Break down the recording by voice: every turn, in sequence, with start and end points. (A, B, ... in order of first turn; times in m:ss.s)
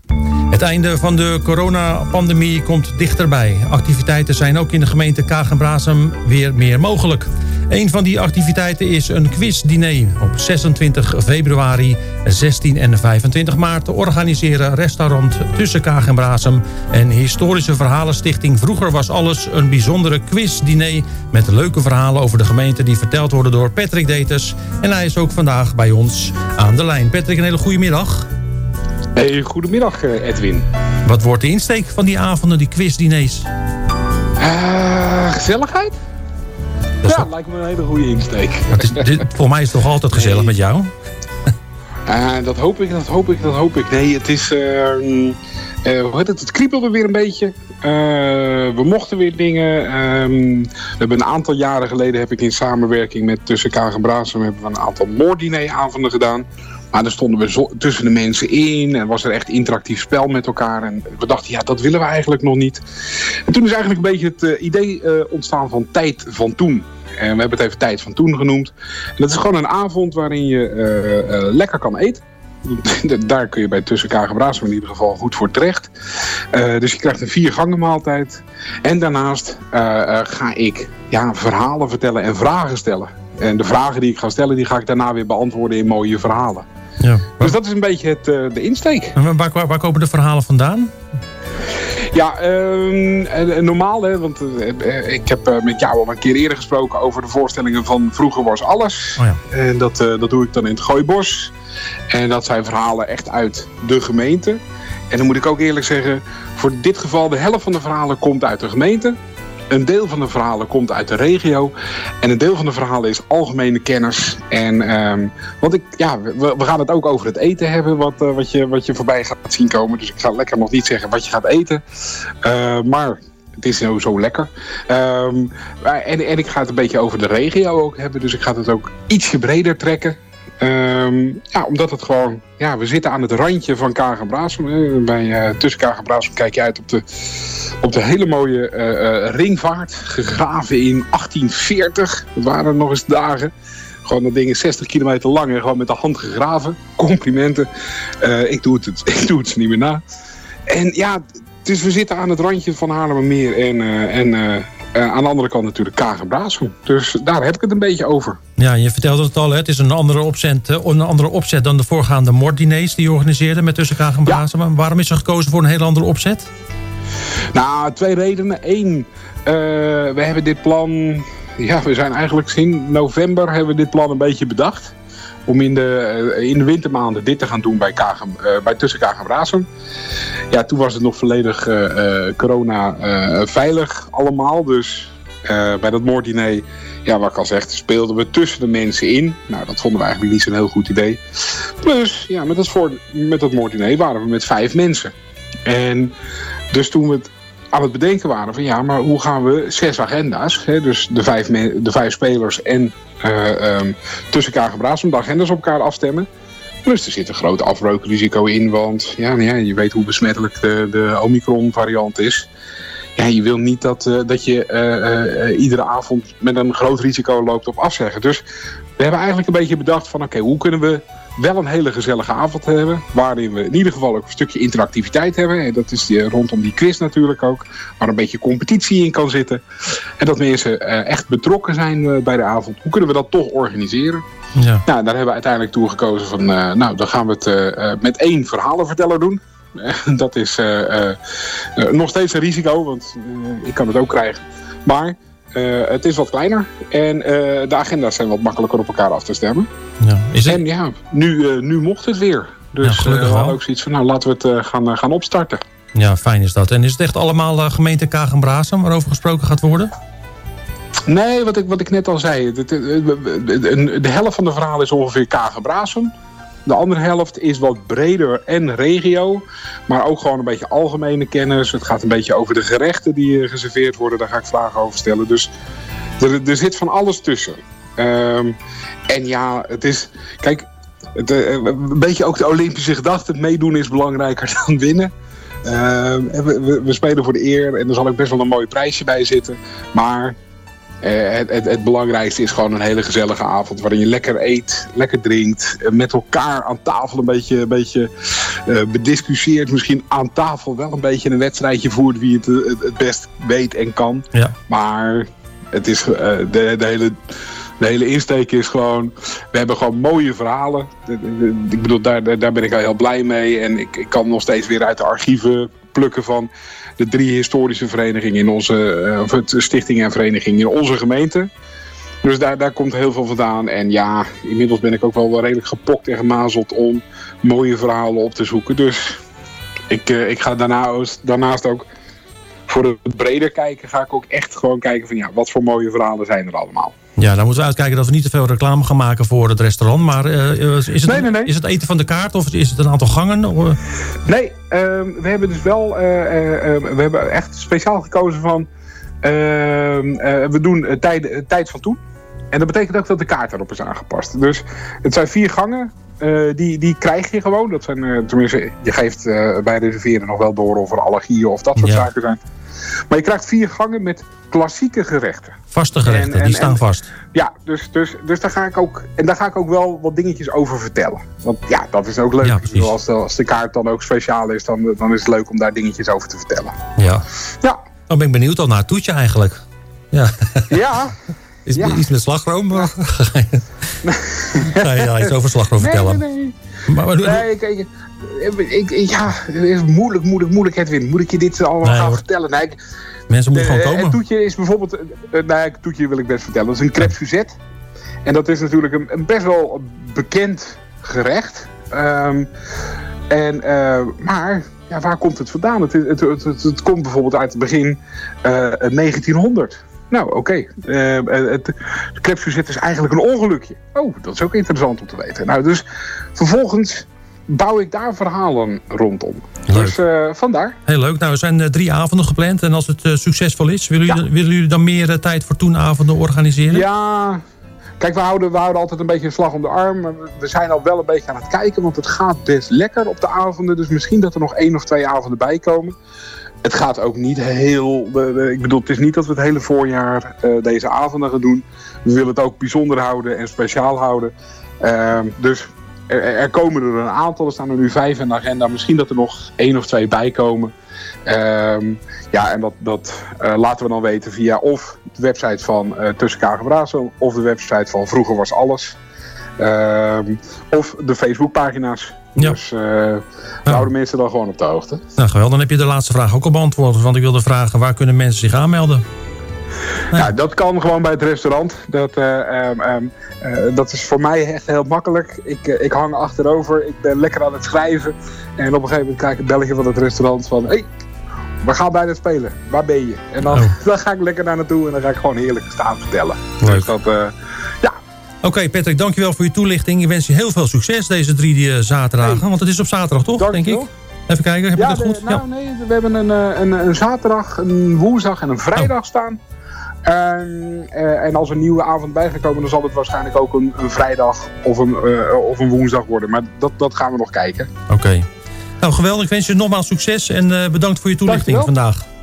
0:00.5-0:28.3 A
0:29.2-0:30.6 B
0:31.0-0:33.5 A
0:34.4-0:35.9 B
0:37.0-0:39.2 B
0:38.7-0:40.9 A
0:40.1-0:40.5 B
0:42.1-1:15.9 B
1:16.5-1:26.6 B
1:27.0-1:27.6 A
1:27.4-1:29.2 B
1:29.2-1:30.9 A
1:32.1-1:41.5 B
1:42.1-1:44.6 B
1:45.1-1:49.2 B
1:49.7-2:01.8 B
2:02.4-2:23.5 B
2:24.0-2:27.7 B
2:28.2-2:30.0 B
2:30.7-2:38.4 B
2:38.6-2:46.5 A
2:47.5-2:54.9 B
2:55.4-2:59.7 B
3:00.5-3:15.1 B
3:15.6-3:16.1 B
3:16.7-3:26.3 B
3:26.8-3:32.5 B
3:33.2-3:38.4 B
3:39.0-3:49.6 B
3:50.2-3:54.2 B
3:54.6-3:54.8 A
3:54.8-4:01.2 B
4:01.8-4:09.7 B
4:10.0-4:10.6 A
4:10.4-4:15.6 B
4:12.8-4:13.6 A
4:15.9-4:19.9 A
4:21.1-4:26.1 B
4:26.6-4:35.5 B
4:36.2-4:38.6 B
4:39.1-4:45.1 B
4:45.6-4:50.3 B
4:51.0-5:21.5 B
5:22.2-5:29.2 B
5:29.9-5:31.8 B
5:32.7-5:36.9 B
5:37.2-5:43.8 A
5:41.0-5:41.5 B
5:44.2-5:48.7 B
5:49.2-5:52.0 B
5:52.5-6:02.4 B
6:01.8-6:02.1 A
6:03.1-6:06.8 B
6:05.7-6:07.1 A
6:07.3-6:16.8 B
6:12.4-6:12.9 A
6:17.0-6:17.2 A
6:18.1-6:20.8 A
6:20.7-6:21.2 B
6:21.6-6:23.7 A
6:21.8-6:22.0 B
6:24.0-6:26.6 B
6:24.6-6:26.2 A
6:26.9-6:27.4 A
6:27.2-6:32.8 B
6:31.8-6:32.2 A
6:33.3-6:34.2 A
6:33.5-6:37.6 B
6:38.2-6:42.5 B
6:43.3-6:55.8 B
6:56.4-7:00.8 B
6:59.7-7:00.0 A
7:00.8-7:06.8 A
7:06.7-7:07.4 B
7:08.0-7:15.9 B
7:16.6-7:30.7 B
7:31.2-7:39.0 B
7:39.6-7:45.0 B
7:45.2-7:49.0 A
7:50.1-8:00.8 B
8:01.6-8:07.9 B
8:03.5-8:03.7 A
8:06.6-8:06.9 A
8:08.4-8:15.4 A
8:13.3-8:13.9 B
8:14.7-8:19.4 B
8:20.0-8:27.7 B
8:27.9-8:28.2 A
8:28.8-8:32.0 A
8:31.2-8:31.7 B